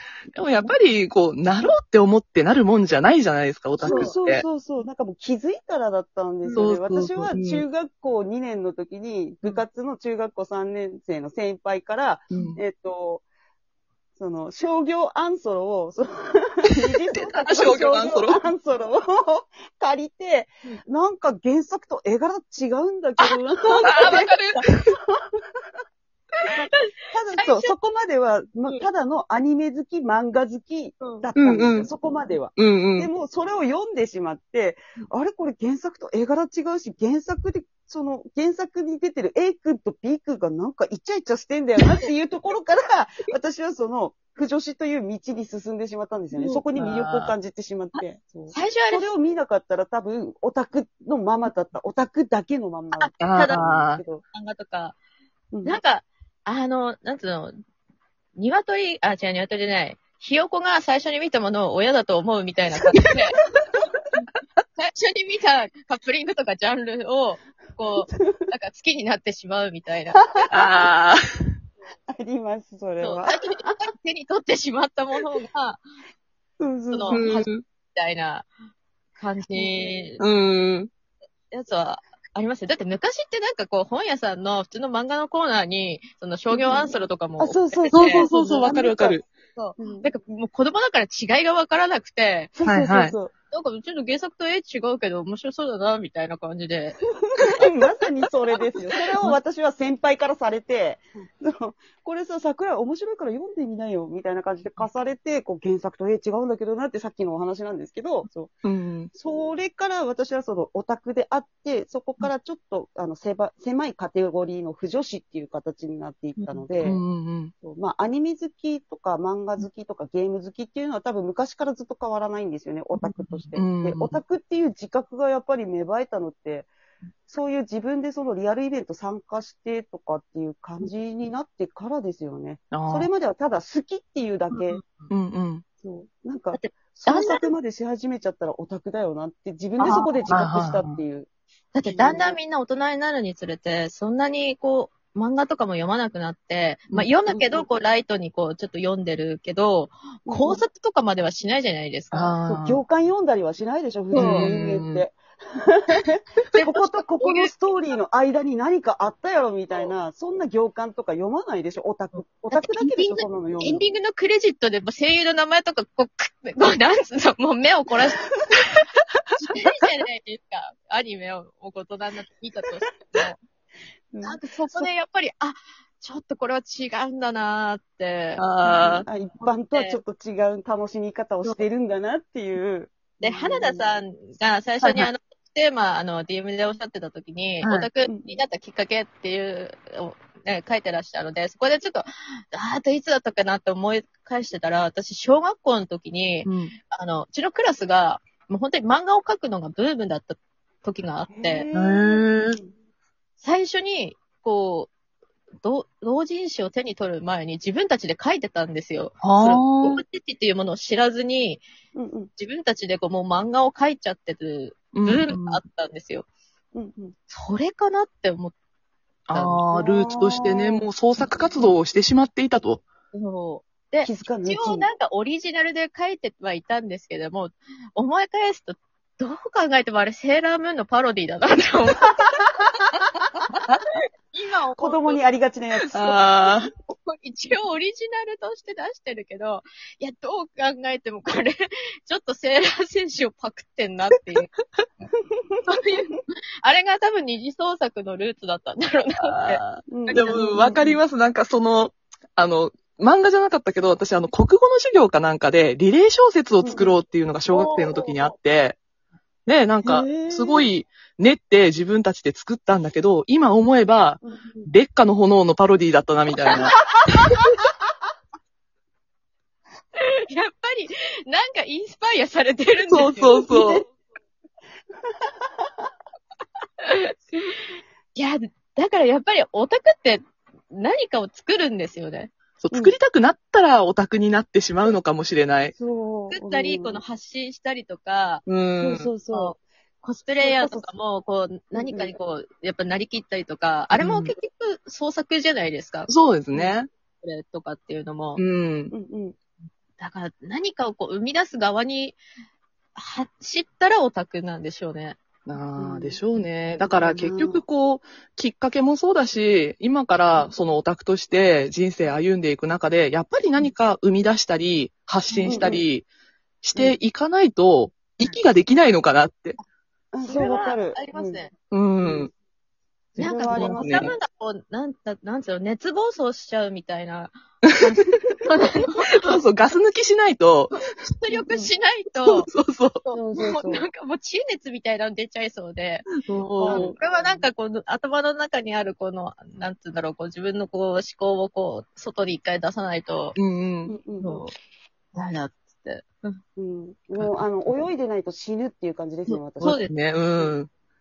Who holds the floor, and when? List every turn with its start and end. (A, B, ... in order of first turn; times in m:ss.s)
0:00.3-0:04.4 A
0:03.8-0:04.1 B
0:03.8-0:13.2 C
0:06.5-0:07.6 A
0:12.3-0:12.6 A
0:14.2-0:25.4 C
0:17.1-0:18.4 A
0:23.7-0:24.2 B
0:23.8-0:24.7 A
0:26.5-0:54.2 C
0:27.4-0:27.7 B
0:31.4-0:31.9 A
0:32.6-0:33.1 A
0:46.3-0:46.6 B
0:46.7-0:47.3 A
0:47.9-0:49.0 B
0:52.9-0:53.6 B
0:53.2-0:54.0 A
0:54.3-0:55.0 B
0:55.5-0:55.8 C
0:55.6-0:57.5 B
0:58.4-1:03.4 B
1:04.8-1:10.3 B
1:08.2-1:08.4 C
1:10.5-1:11.2 A
1:12.1-1:13.3 C
1:13.0-1:15.8 B
1:16.6-1:17.4 C
1:16.9-1:18.5 B
1:17.1-1:17.6 A
1:19.2-1:20.2 B
1:19.5-1:19.9 C
1:20.2-1:20.9 A
1:21.5-1:28.2 B
1:26.5-1:29.2 C
1:27.9-1:29.3 A
1:29.5-1:32.5 B
1:29.8-1:30.1 C
1:32.5-1:33.3 C
1:32.6-1:33.2 A
1:33.5-1:37.0 B
1:37.5-1:48.5 C
1:48.6-1:49.1 A
1:49.1-1:57.0 C
1:56.4-1:56.6 B
1:56.8-1:57.5 A
1:57.6-2:06.7 C
2:03.0-2:03.6 B
2:03.5-2:04.2 A
2:07.3-2:14.8 C
2:12.7-2:13.1 A
2:14.5-2:15.1 B
2:15.1-2:15.6 A
2:15.8-2:21.3 C
2:16.5-2:17.5 B
2:19.8-2:20.4 B
2:20.3-2:21.0 A
2:21.7-2:32.3 B
2:21.8-2:22.4 C
2:27.3-2:27.6 C
2:30.2-2:30.6 C
2:32.1-2:32.8 A
2:32.4-2:43.8 C
2:34.1-2:34.5 B
2:34.1-2:35.0 A
2:36.5-2:37.5 B
2:42.1-2:48.8 B
2:49.3-2:53.4 B
2:54.1-2:54.9 C
2:54.2-3:00.0 B
2:58.4-2:59.0 A
2:58.7-3:04.0 C
3:03.2-3:21.6 B
3:04.8-3:05.1 A
3:07.6-3:07.9 A
3:08.0-3:08.4 C
3:16.4-3:16.7 A
3:21.3-3:22.7 C
3:21.7-3:22.6 A
3:23.4-3:24.9 B
3:25.6-3:31.6 B
3:29.2-3:30.0 A
3:31.9-3:32.3 C
3:32.4-3:36.3 B
3:34.9-3:35.6 A
3:36.7-3:37.1 C
3:37.3-3:38.5 B
3:39.3-3:42.8 A
3:39.3-3:39.7 B
3:39.7-3:40.9 C
3:43.1-3:52.5 B
3:44.0-3:44.9 C
3:54.3-3:55.2 B
3:54.8-3:56.2 C
3:55.9-3:56.7 A
3:57.0-4:04.5 B
4:05.6-4:10.6 B
4:09.2-4:18.8 A
4:09.9-4:11.0 C
4:16.6-4:16.9 C
4:17.5-4:18.3 B
4:19.4-4:27.4 A
4:19.8-4:20.7 C
4:24.2-4:24.7 C
4:30.0-4:33.6 B
4:32.9-4:33.8 A
4:35.0-4:35.8 C
4:36.8-4:42.3 B
4:42.6-4:45.7 A
4:45.8-4:47.0 C
4:46.3-4:48.4 B
4:48.4-4:49.1 A
4:48.8-4:49.6 C
4:49.3-4:58.4 B
4:50.4-4:50.9 C
4:51.7-4:52.1 C
4:53.9-4:54.3 A
4:56.1-4:56.9 A
4:58.4-4:58.9 A
4:58.9-4:59.4 C
5:00.0-5:02.2 B
5:02.9-5:05.2 B
5:05.5-5:16.1 A
5:05.8-5:06.2 C
5:06.8-5:07.6 C
5:15.3-5:15.7 B
5:15.4-5:15.8 C
5:16.6-5:19.6 A
5:20.1-5:21.4 C
5:20.2-5:21.5 B
5:21.7-5:22.3 A
5:22.0-5:22.3 C
5:23.2-5:24.1 C
5:23.2-5:29.4 B
5:23.5-5:24.1 A
5:29.1-5:30.8 A
5:31.0-5:32.5 B
5:32.2-5:33.0 A
5:33.0-5:43.4 B
5:33.1-5:33.8 C
5:36.2-5:36.9 A
5:36.6-5:37.4 C
5:43.4-5:43.9 A
5:43.9-5:44.4 C
5:44.2-5:44.5 B
5:45.1-5:46.4 B
5:46.6-5:49.8 C
5:49.3-5:49.9 B
5:49.6-5:50.7 A